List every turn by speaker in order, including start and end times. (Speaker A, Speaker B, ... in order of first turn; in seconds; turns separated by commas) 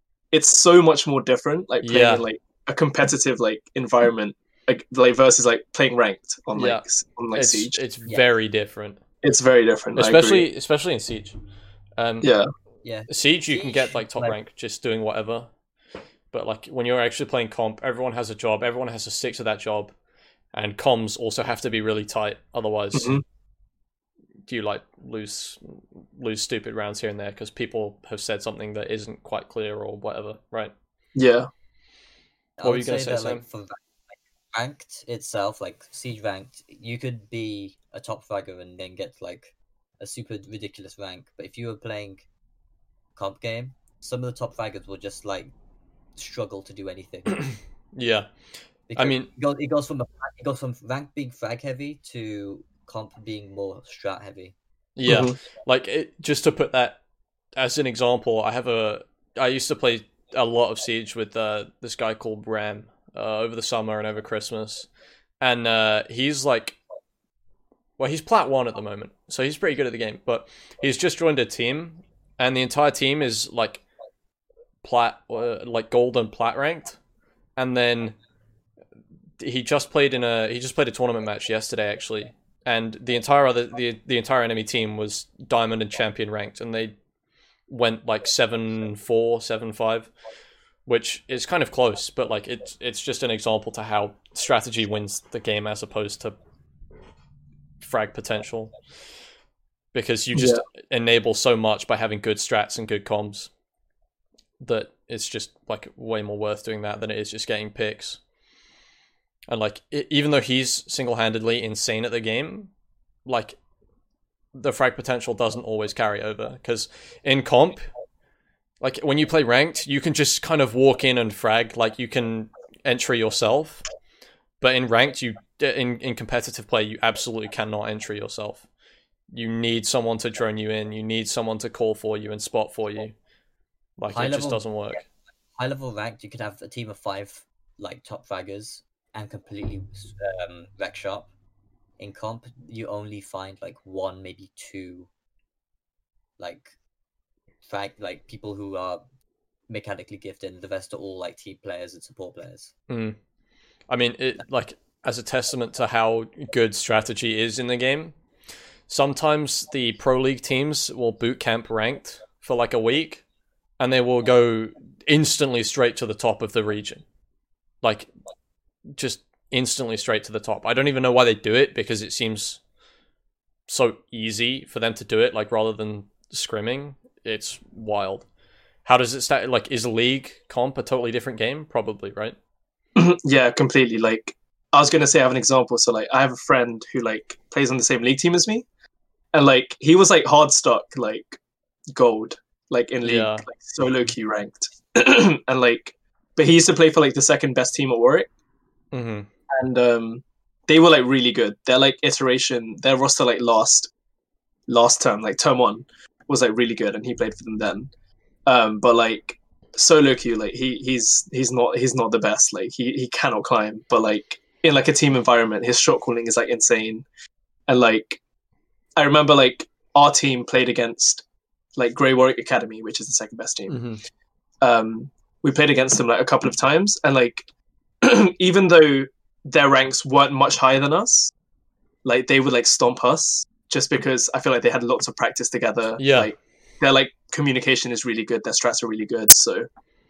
Speaker A: 0.3-7.8, Speaker B: 1.8-2.2, Speaker B: 6.5-9.0, Speaker A: 9.2-10.5, Speaker B: 9.9-11.4, Speaker B: 12.0-12.3, Speaker A: 12.2-12.5, Speaker C: 12.8-14.4, Speaker B: 13.1-15.5, Speaker B: 16.3-19.9, Speaker B: 20.5-23.2, Speaker A: 22.9-23.2, Speaker B: 24.5-30.7, Speaker A: 31.1-31.5, Speaker C: 32.6-42.2, Speaker B: 32.6-33.4, Speaker C: 43.1-45.5, Speaker C: 46.1-47.5, Speaker B: 47.3-48.3, Speaker C: 48.9-54.5, Speaker B: 49.0-49.3, Speaker B: 55.0-57.0, Speaker A: 55.0-55.4, Speaker B: 57.5-64.9, Speaker B: 65.4-66.8, Speaker B: 68.0-73.8, Speaker B: 74.8-77.0, Speaker B: 77.6-78.2, Speaker B: 79.4-87.0, Speaker B: 87.7-90.1, Speaker B: 90.8-96.3, Speaker B: 97.8-98.7, Speaker B: 99.9-103.5, Speaker A: 100.3-100.6, Speaker B: 104.6-108.2, Speaker B: 109.5-112.7, Speaker B: 113.2-113.6, Speaker B: 114.5-117.8, Speaker B: 118.8-123.8, Speaker B: 124.6-128.6, Speaker B: 129.3-133.1, Speaker B: 134.0-135.0, Speaker C: 134.1-135.0, Speaker C: 135.6-141.3, Speaker C: 142.0-145.1, Speaker C: 146.4-146.7, Speaker C: 147.6-149.0, Speaker C: 149.7-152.7, Speaker B: 152.9-153.2, Speaker B: 153.9-158.1, Speaker B: 158.9-163.2, Speaker B: 163.8-167.0, Speaker B: 167.8-168.1, Speaker B: 168.9-172.6, Speaker B: 173.7-178.2, Speaker B: 178.8-182.3, Speaker A: 182.9-188.6, Speaker A: 189.3-191.4, Speaker A: 191.9-198.3, Speaker B: 193.0-193.5, Speaker B: 198.9-199.3, Speaker A: 199.5-203.9, Speaker A: 204.7-207.9, Speaker A: 208.4-217.1, Speaker A: 217.7-218.2, Speaker A: 218.9-221.2, Speaker A: 221.8-223.8, Speaker B: 223.7-224.0, Speaker A: 224.6-227.4, Speaker A: 228.0-231.3, Speaker A: 232.0-239.7, Speaker B: 236.0-236.3